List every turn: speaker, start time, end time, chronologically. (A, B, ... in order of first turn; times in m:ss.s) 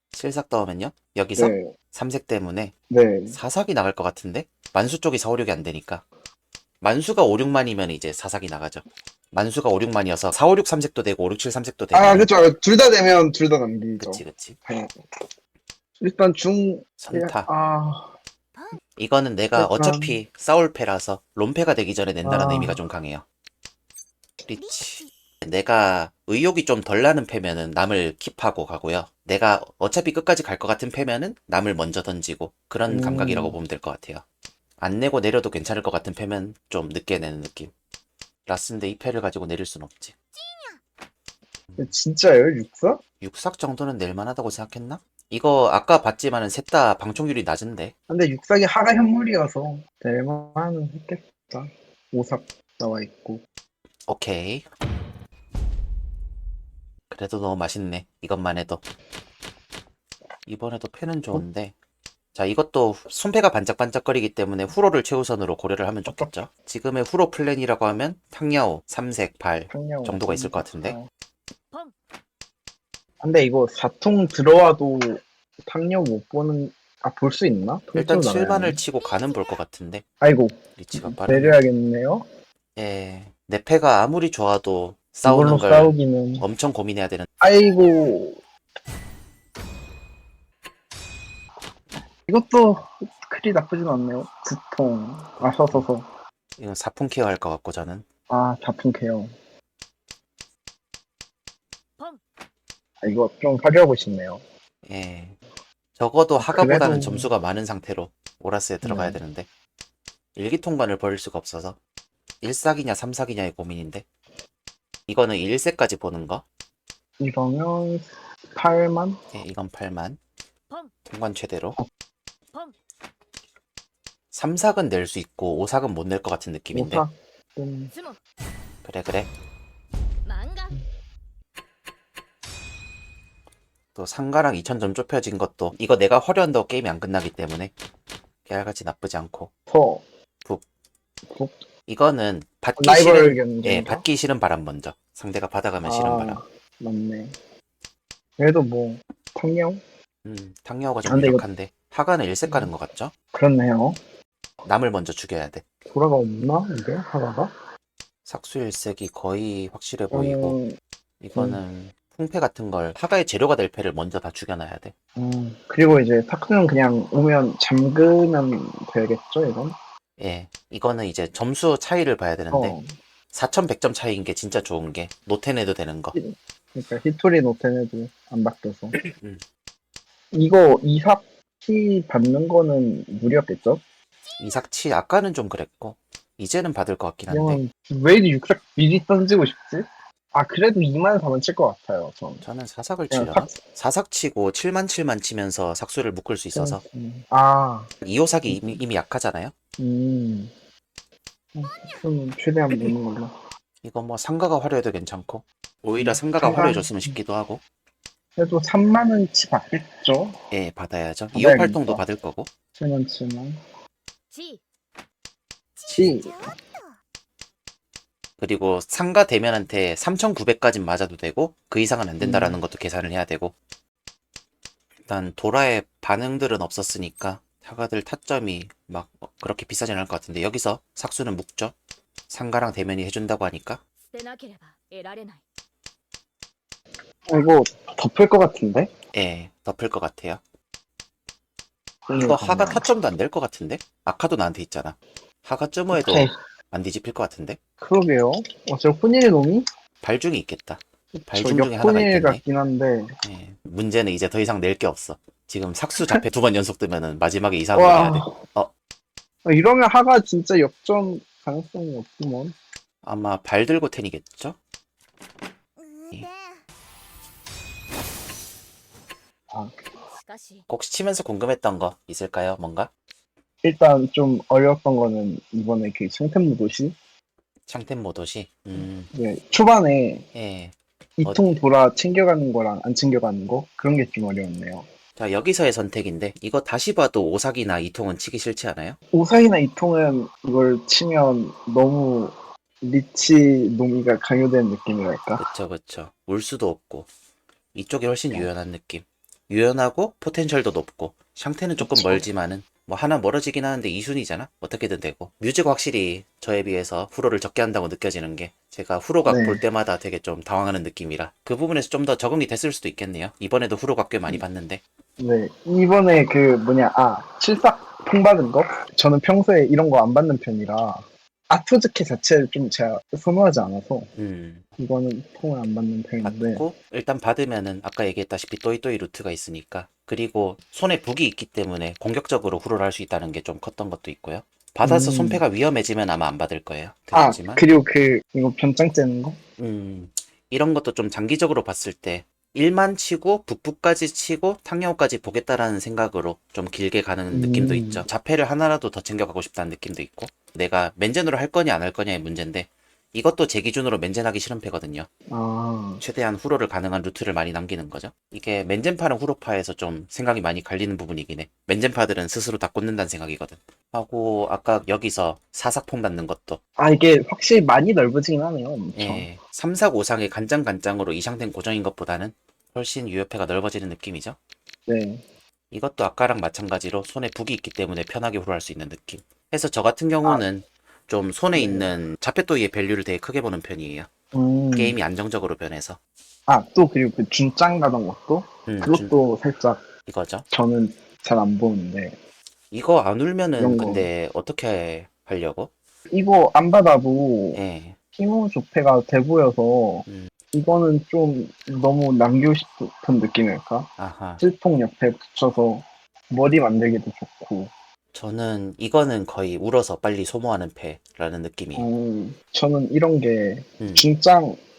0:00.1-0:02.7 A
0:01.4-0:01.7 B
0:02.9-0:03.4 B
0:03.3-0:06.0 A
0:06.8-0:12.3 A
0:11.9-0:15.3 B
0:14.0-0:14.6 A
0:16.0-0:18.2 B
0:17.0-0:17.5 A
0:19.0-0:23.2 A
0:19.5-0:20.2 B
0:22.2-0:22.8 B
0:24.5-0:34.2 A
0:32.9-0:33.6 B
0:34.8-0:37.7 A
0:38.5-0:40.1 A
0:41.8-0:43.0 B
0:43.2-0:47.9 A
0:48.1-0:53.4 B
0:54.1-0:54.7 A
0:57.1-0:58.8 A
1:00.4-1:01.7 A
1:02.4-1:11.0 A
1:06.0-1:06.4 B
1:09.7-1:11.1 B
1:13.2-1:18.8 B
1:17.9-1:20.0 A
1:20.2-1:22.2 B
1:20.8-1:21.6 A
1:22.8-1:27.3 A
1:25.2-1:26.4 B
1:27.4-1:28.4 B
1:32.3-1:36.1 B
1:36.6-1:38.0 A
1:38.3-1:39.3 B
1:43.0-1:44.4 B
1:44.8-1:45.4 A
1:46.0-1:49.5 A
1:46.4-1:47.3 B
1:48.8-1:49.2 B
1:50.4-1:51.8 A
1:52.4-1:54.0 A
1:55.1-1:56.4 A
1:57.2-1:59.2 B
1:59.3-2:00.2 A
2:01.0-2:01.8 A
2:04.3-2:07.0 A
2:06.7-2:07.9 B
2:07.9-2:08.2 C
2:08.8-2:09.3 A
2:10.2-2:10.8 C
2:13.9-2:17.7 A
2:18.4-2:19.5 A
2:19.7-2:20.0 B
2:21.2-2:21.6 B
2:21.9-2:26.4 A
2:22.8-2:24.0 B
2:25.8-2:27.4 B
2:28.4-2:29.8 B
2:30.2-2:33.1 A
2:31.0-2:31.4 B
2:32.4-2:32.7 B
2:33.3-2:34.0 B
2:34.6-2:35.6 A
2:35.9-2:37.5 B
2:38.2-2:40.6 A
2:40.1-2:40.8 B
2:41.2-2:44.9 A
2:41.4-2:41.6 B
2:45.2-2:49.8 B
2:50.2-2:52.8 A
2:52.5-2:53.0 B
2:53.3-2:56.1 A
2:56.1-2:59.1 B
2:59.2-2:59.4 A
3:00.3-3:03.8 B
3:04.4-3:07.6 A
3:07.3-3:12.4 B
3:12.4-3:16.8 A
3:13.1-3:13.6 B
3:16.5-3:17.9 B
3:18.0-3:19.5 A
3:18.5-3:18.8 B
3:19.8-3:20.5 B
3:21.5-3:23.4 B
3:23.8-3:27.6 A
3:26.0-3:27.2 B
3:28.4-3:30.4 B
3:30.5-3:32.5 A
3:31.3-3:32.0 B
3:32.8-3:33.6 B
3:34.3-3:34.6 C
3:35.9-3:36.6 C
3:35.9-3:36.2 A
3:35.9-3:36.5 B
3:38.4-3:43.5 A
3:42.2-3:42.6 B
3:45.0-3:51.8 A
3:52.3-3:53.8 A
3:54.1-3:55.4 C
3:57.3-3:58.9 B
3:59.1-4:00.4 A
4:02.1-4:02.9 B
4:02.1-4:07.6 A
4:05.9-4:06.4 B
4:07.8-4:09.7 B
4:10.0-4:12.4 A
4:11.1-4:13.1 B
4:13.2-4:18.7 A
4:17.7-4:18.3 B
4:19.4-4:22.6 B
4:23.0-4:24.6 A
4:30.3-4:30.6 C
4:30.7-4:32.9 A
4:33.6-4:37.0 B
4:37.7-4:39.1 A
4:38.8-4:40.2 B
4:40.3-4:41.5 A
4:41.2-4:44.9 B
4:45.2-4:49.0 A
4:49.1-4:55.5 B
4:55.4-4:57.1 A
4:57.7-5:14.8 A
5:01.8-5:02.2 B
5:09.2-5:09.6 B
5:15.2-5:24.1 B
5:24.2-5:24.6 A
5:24.8-5:26.6 B
5:26.2-5:37.6 A
5:34.8-5:35.4 B
5:37.1-5:39.4 B
5:39.6-5:55.1 A
5:47.3-5:48.0 B
5:55.3-5:56.0 B
5:56.0-6:06.6 A
6:06.8-6:09.3 B
6:09.0-6:14.4 A
6:14.9-6:15.2 B
6:15.7-6:24.1 A
6:21.5-6:21.9 B
6:24.3-6:25.0 B
6:24.7-6:26.0 A
6:26.5-6:29.9 B
6:28.7-6:29.1 A
6:30.1-6:30.5 A
6:30.5-6:32.2 B
6:32.7-6:35.7 A
6:33.6-6:34.1 B
6:36.1-6:37.6 B
6:37.5-6:38.0 A
6:38.2-6:47.7 B
6:44.0-6:44.4 A
6:48.1-6:51.8 A
6:51.8-6:54.6 B
6:53.8-6:54.0 A